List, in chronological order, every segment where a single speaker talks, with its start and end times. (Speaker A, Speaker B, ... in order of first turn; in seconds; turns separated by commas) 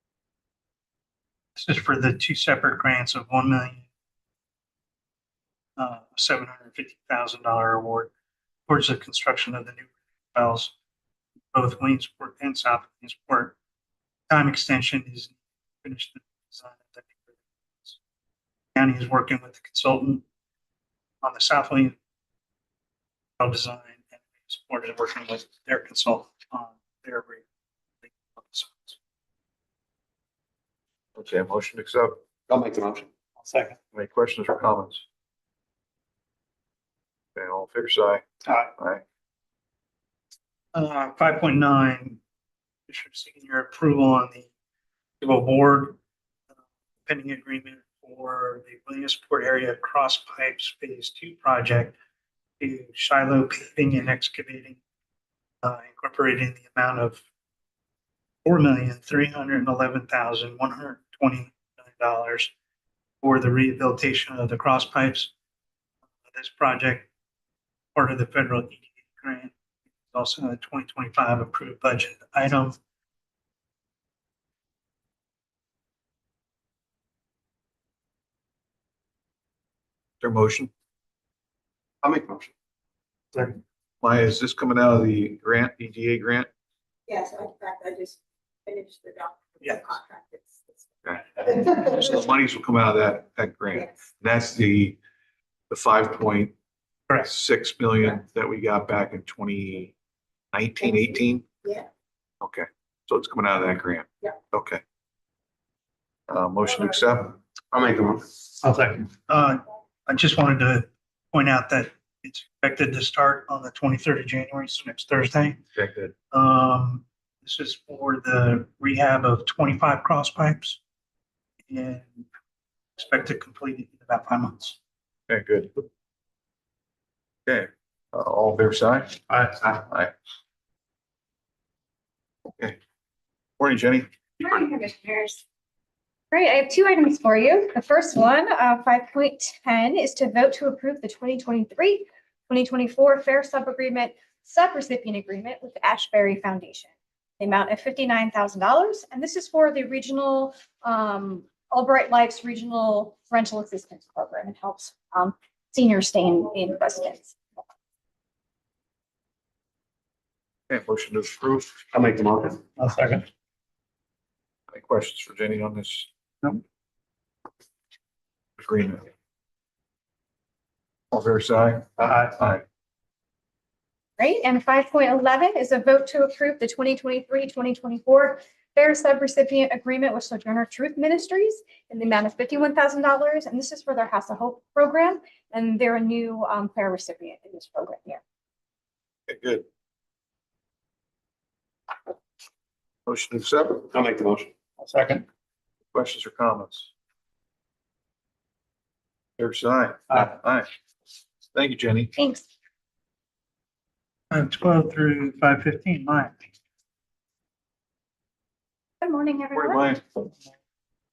Speaker A: 1.6-3.9, Speaker A: 5.8-8.1, Speaker A: 8.7-10.7, Speaker A: 11.5-13.6, Speaker A: 14.3-18.0, Speaker A: 18.8-20.2, Speaker A: 21.2-22.0, Speaker A: 23.4-27.4, Speaker A: 28.0-29.0, Speaker B: 31.2-32.2, Speaker C: 32.5-33.1, Speaker A: 33.4-33.8, Speaker B: 33.9-35.0, Speaker B: 37.4-39.0, Speaker A: 40.7-42.2, Speaker A: 42.9-44.5, Speaker A: 45.2-46.0, Speaker A: 47.0-52.0, Speaker A: 52.6-54.8, Speaker A: 55.6-57.2, Speaker A: 58.5-62.5, Speaker A: 63.2-65.3, Speaker A: 66.3-67.1, Speaker A: 68.0-72.8, Speaker B: 80.2-80.7, Speaker C: 82.0-82.5, Speaker B: 84.0-86.5, Speaker D: 87.1-90.9, Speaker B: 91.0-95.0, Speaker D: 91.4-91.7, Speaker B: 95.7-96.5, Speaker B: 97.2-99.9, Speaker B: 100.5-101.4, Speaker B: 102.4-104.8, Speaker B: 106.3-107.4, Speaker C: 107.7-108.3, Speaker A: 108.6-115.6, Speaker B: 115.8-116.1, Speaker A: 116.3-120.8, Speaker A: 121.7-122.3, Speaker A: 123.0-124.8, Speaker B: 125.3-125.8, Speaker B: 127.5-130.1, Speaker A: 129.3-129.6, Speaker B: 133.6-134.1, Speaker E: 134.4-135.4, Speaker E: 136.3-146.9, Speaker E: 147.4-157.3, Speaker B: 160.7-161.8, Speaker C: 161.9-162.6, Speaker A: 162.8-163.2, Speaker B: 164.7-166.1, Speaker B: 168.6-169.1, Speaker B: 171.1-172.6, Speaker E: 174.2-188.2, Speaker B: 189.3-189.7, Speaker B: 193.1-193.9, Speaker C: 193.9-194.5, Speaker A: 194.8-195.2, Speaker B: 195.9-196.9, Speaker B: 199.4-200.7, Speaker B: 201.5-202.1, Speaker E: 202.2-202.4, Speaker A: 204.3-206.4, Speaker E: 209.0-209.5, Speaker D: 209.3-209.8, Speaker B: 209.5-210.0